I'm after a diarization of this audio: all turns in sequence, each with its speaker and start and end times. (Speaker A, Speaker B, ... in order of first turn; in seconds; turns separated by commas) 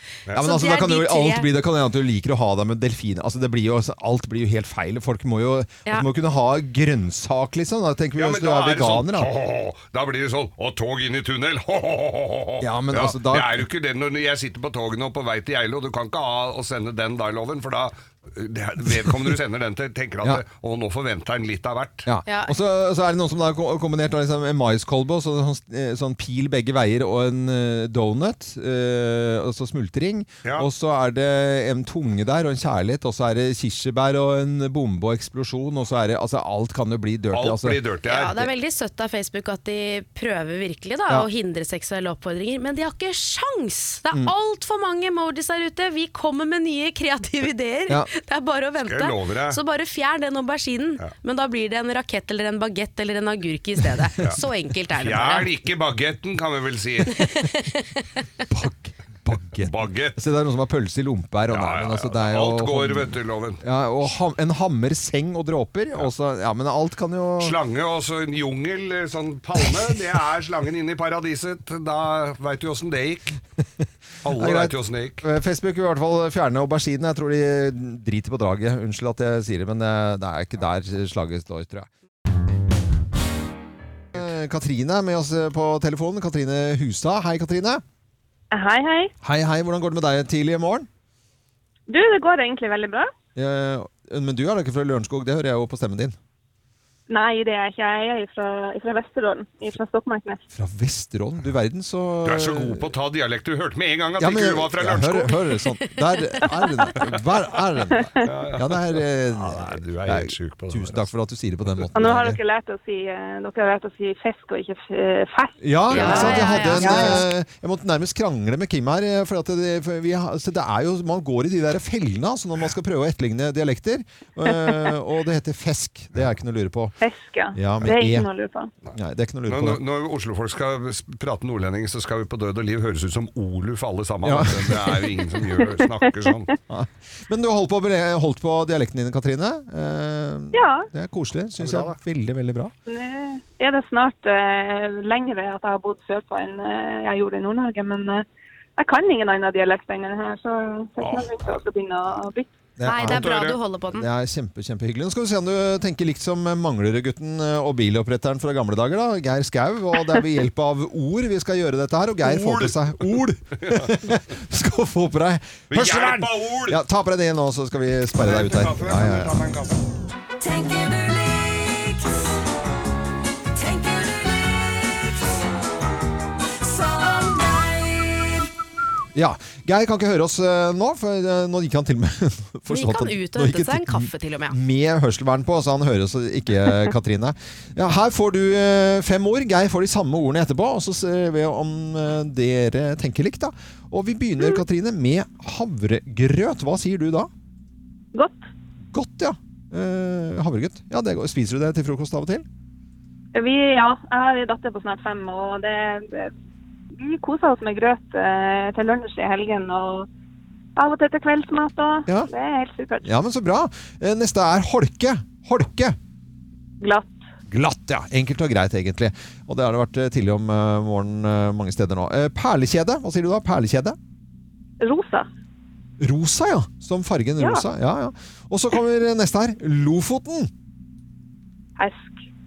Speaker A: 0.3-9.3, Speaker B: 0.4-1.5, Speaker C: 8.2-22.1, Speaker A: 12.6-13.7, Speaker A: 22.1-37.8, Speaker B: 22.2-22.6, Speaker C: 37.3-38.5, Speaker B: 38.0-55.5, Speaker C: 48.8-49.6, Speaker C: 55.0-57.3, Speaker B: 57.1-58.2, Speaker A: 58.5-67.6, Speaker C: 59.6-60.2, Speaker C: 61.5-63.6, Speaker C: 67.4-73.4, Speaker C: 74.2-75.2, Speaker A: 74.3-81.9, Speaker A: 84.1-87.8, Speaker D: 88.5-89.1, Speaker A: 89.2-90.9, Speaker D: 91.9-93.1, Speaker A: 93.4-96.2, Speaker D: 97.1-100.4, Speaker A: 100.5-102.9, Speaker C: 102.2-105.4, Speaker A: 104.2-112.4, Speaker D: 108.0-108.3, Speaker C: 108.2-111.1, Speaker D: 111.9-117.2, Speaker A: 115.6-126.9, Speaker C: 115.9-116.2, Speaker B: 115.9-117.2, Speaker D: 124.4-124.9, Speaker D: 127.0-128.7, Speaker A: 127.5-128.3, Speaker A: 128.9-129.8, Speaker C: 129.5-136.5, Speaker A: 134.2-135.1, Speaker A: 136.7-142.7, Speaker D: 140.5-140.9, Speaker C: 141.6-142.0, Speaker D: 142.9-148.2, Speaker D: 148.8-152.5, Speaker C: 151.0-151.6, Speaker A: 152.8-153.3, Speaker B: 152.8-154.1, Speaker C: 153.0-153.6, Speaker A: 153.9-169.4, Speaker C: 162.2-163.9, Speaker C: 165.7-166.8, Speaker C: 168.2-169.8, Speaker E: 170.4-172.4, Speaker E: 173.5-175.4, Speaker E: 176.6-178.5, Speaker A: 179.1-197.3, Speaker B: 182.7-184.6, Speaker D: 198.1-198.4, Speaker A: 198.9-202.4, Speaker D: 203.3-206.3, Speaker D: 207.0-210.1, Speaker D: 210.8-213.1, Speaker A: 213.0-215.9, Speaker D: 216.8-217.2, Speaker A: 217.5-224.0, Speaker D: 224.8-225.3, Speaker A: 226.0-230.5, Speaker D: 227.4-227.6, Speaker D: 231.8-232.2